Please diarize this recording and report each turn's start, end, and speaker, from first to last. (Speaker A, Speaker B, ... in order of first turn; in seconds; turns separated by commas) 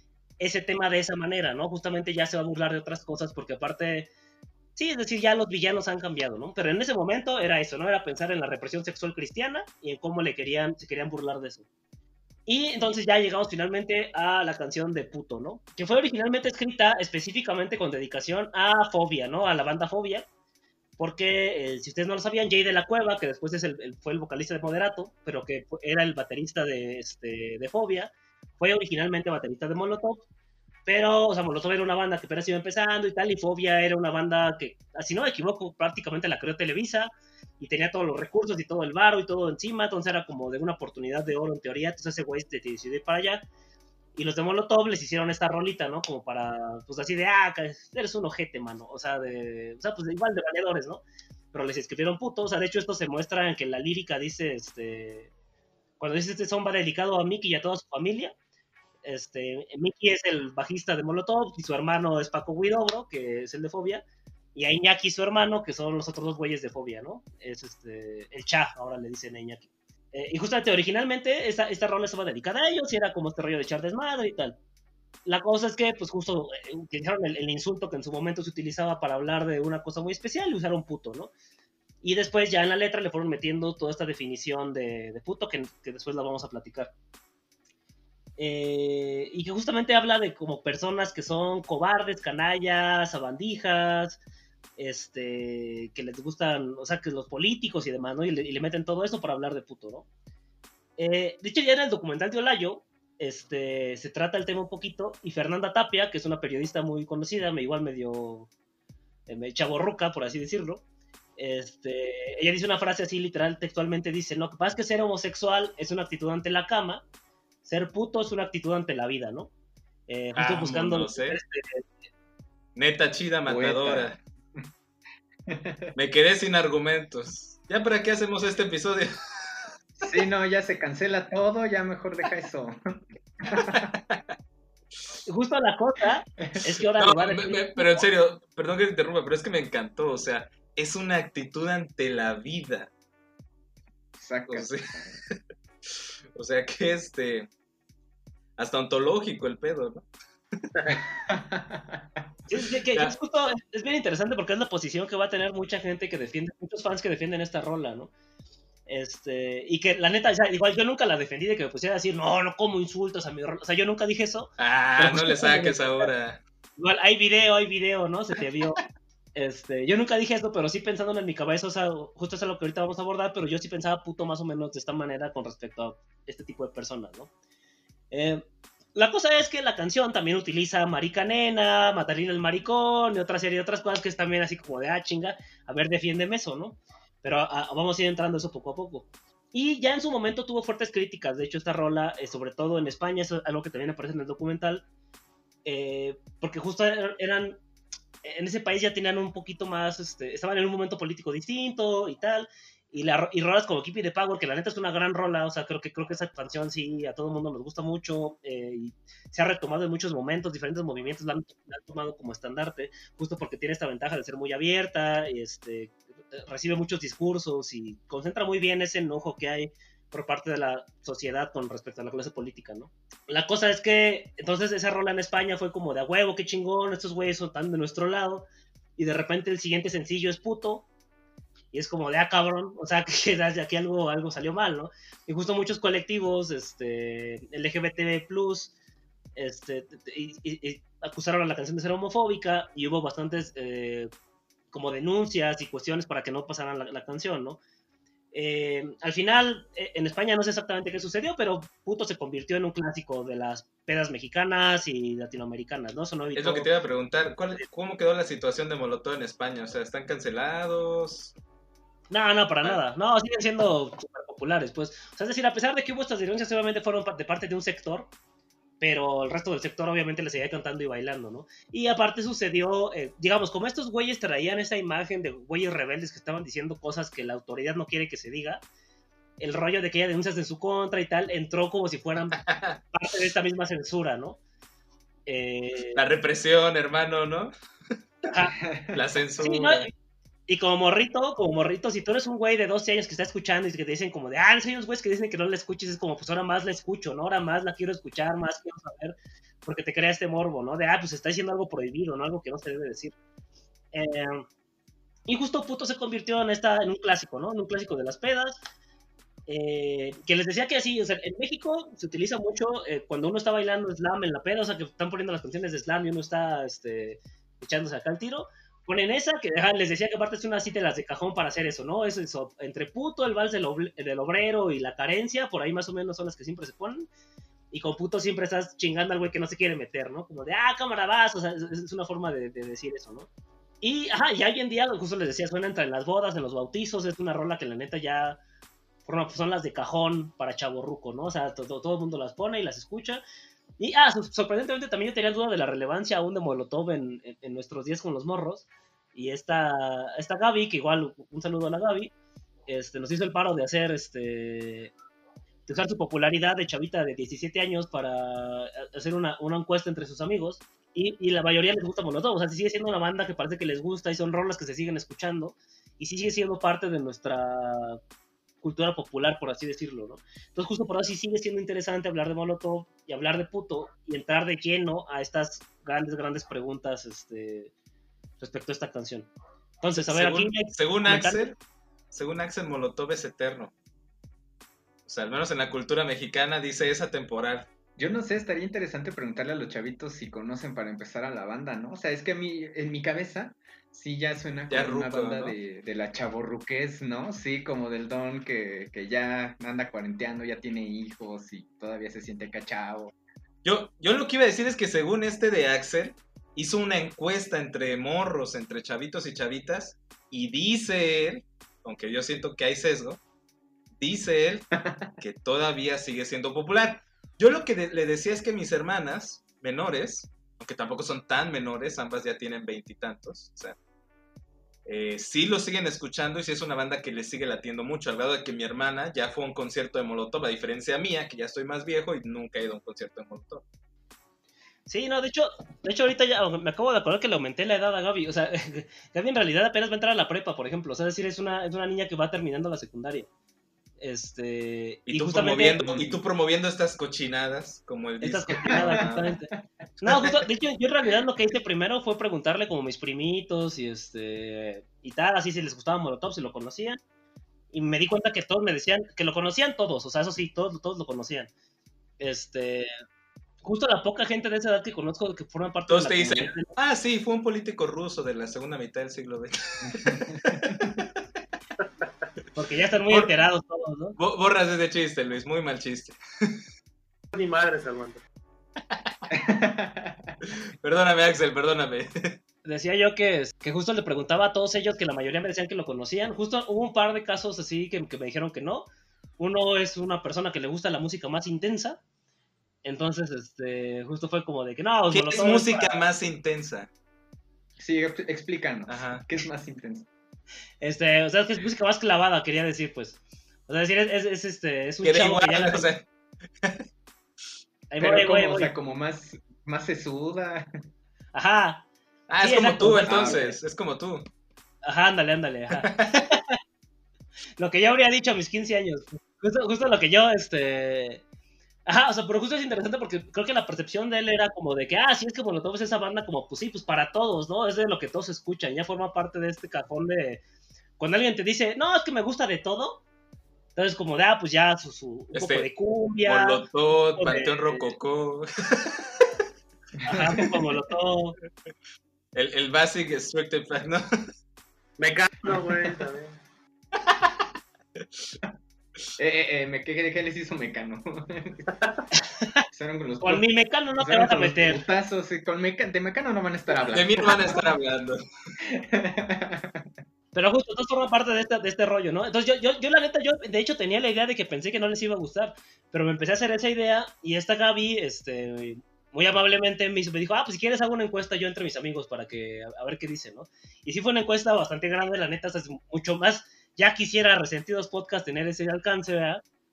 Speaker A: 0.4-4.1, Speaker A: 4.8-11.7, Speaker A: 12.5-20.3, Speaker A: 21.0-30.2, Speaker A: 30.9-43.5, Speaker A: 44.2-51.0, Speaker A: 51.5-55.3, Speaker A: 56.0-58.3, Speaker A: 59.0-64.0, Speaker A: 64.5-74.6, Speaker A: 75.3-81.3, Speaker A: 82.0-86.9, Speaker A: 88.4-94.2, Speaker A: 94.8-100.1, Speaker A: 101.0-108.5, Speaker A: 109.3-110.8, Speaker A: 111.4-117.0, Speaker A: 117.6-119.5, Speaker A: 120.1-121.8, Speaker B: 120.4-121.4, Speaker B: 122.8-124.2, Speaker C: 123.5-124.6, Speaker C: 125.5-125.9, Speaker B: 126.0-129.1, Speaker C: 130.0-132.8, Speaker C: 133.4-133.9, Speaker B: 133.5-134.2, Speaker A: 135.3-138.1, Speaker B: 137.0-142.9, Speaker C: 144.2-145.2, Speaker B: 144.5-145.4, Speaker B: 146.3-147.5, Speaker B: 148.6-150.6, Speaker C: 151.1-152.2, Speaker A: 152.5-158.1, Speaker A: 158.9-166.1, Speaker B: 164.6-166.4, Speaker A: 166.8-168.8, Speaker A: 169.4-177.3, Speaker A: 178.1-178.4, Speaker A: 178.9-194.8, Speaker A: 195.7-197.6, Speaker A: 198.2-228.5, Speaker A: 229.0-230.8, Speaker A: 231.7-238.7, Speaker A: 239.4-244.1, Speaker A: 244.7-247.6, Speaker A: 248.3-256.7, Speaker B: 256.4-261.3, Speaker A: 262.1-268.1, Speaker A: 268.8-278.6, Speaker A: 279.4-284.4, Speaker B: 282.3-282.8, Speaker A: 285.3-286.0, Speaker B: 285.9-287.5, Speaker A: 288.3-288.6, Speaker C: 288.7-289.0, Speaker B: 288.9-289.9, Speaker A: 289.4-289.9, Speaker A: 290.5-303.1, Speaker A: 303.9-304.5, Speaker A: 305.3-308.6, Speaker A: 309.5-327.1, Speaker A: 327.7-333.3, Speaker A: 333.8-338.4, Speaker A: 339.1-343.2, Speaker A: 343.8-352.1, Speaker A: 352.7-354.9, Speaker A: 355.7-368.0, Speaker A: 368.6-377.7, Speaker A: 378.4-379.3, Speaker A: 379.8-381.5, Speaker B: 380.0-381.6, Speaker B: 382.1-383.7, Speaker B: 385.1-387.7, Speaker C: 388.0-403.1, Speaker B: 394.7-395.6, Speaker B: 403.6-413.2, Speaker B: 414.0-423.8, Speaker C: 414.8-415.1, Speaker B: 424.9-433.6, Speaker A: 434.9-443.3, Speaker A: 444.0-446.1, Speaker B: 445.1-449.3, Speaker A: 448.2-449.5, Speaker C: 448.7-449.1, Speaker A: 450.0-457.0, Speaker A: 457.7-461.5, Speaker A: 462.2-462.9, Speaker A: 463.6-466.7, Speaker B: 465.9-471.1, Speaker C: 469.8-470.8, Speaker A: 472.6-474.2, Speaker B: 474.2-476.6, Speaker D: 477.3-478.2, Speaker C: 479.3-480.3, Speaker B: 480.5-482.4, Speaker A: 482.6-488.9, Speaker A: 489.4-492.0, Speaker A: 492.8-496.0, Speaker B: 495.1-496.9, Speaker C: 497.8-500.1, Speaker B: 498.9-499.3, Speaker A: 500.8-505.9, Speaker B: 505.0-506.1, Speaker A: 507.9-508.7, Speaker C: 508.0-510.7, Speaker A: 511.3-511.8, Speaker B: 512.3-514.3, Speaker A: 512.4-513.6, Speaker C: 513.0-513.4, Speaker A: 514.8-516.6, Speaker B: 515.8-516.2, Speaker A: 517.6-521.2, Speaker A: 521.9-530.4, Speaker A: 531.0-533.0, Speaker A: 533.8-536.6, Speaker B: 535.3-535.7, Speaker B: 536.3-539.3, Speaker A: 537.2-537.9, Speaker A: 540.1-541.4, Speaker B: 542.4-544.1, Speaker D: 545.0-546.4, Speaker B: 547.0-547.4, Speaker C: 549.2-551.7, Speaker C: 552.7-553.5, Speaker A: 553.2-554.8, Speaker C: 554.0-557.6, Speaker B: 556.9-558.2, Speaker C: 558.6-559.9, Speaker A: 560.3-579.4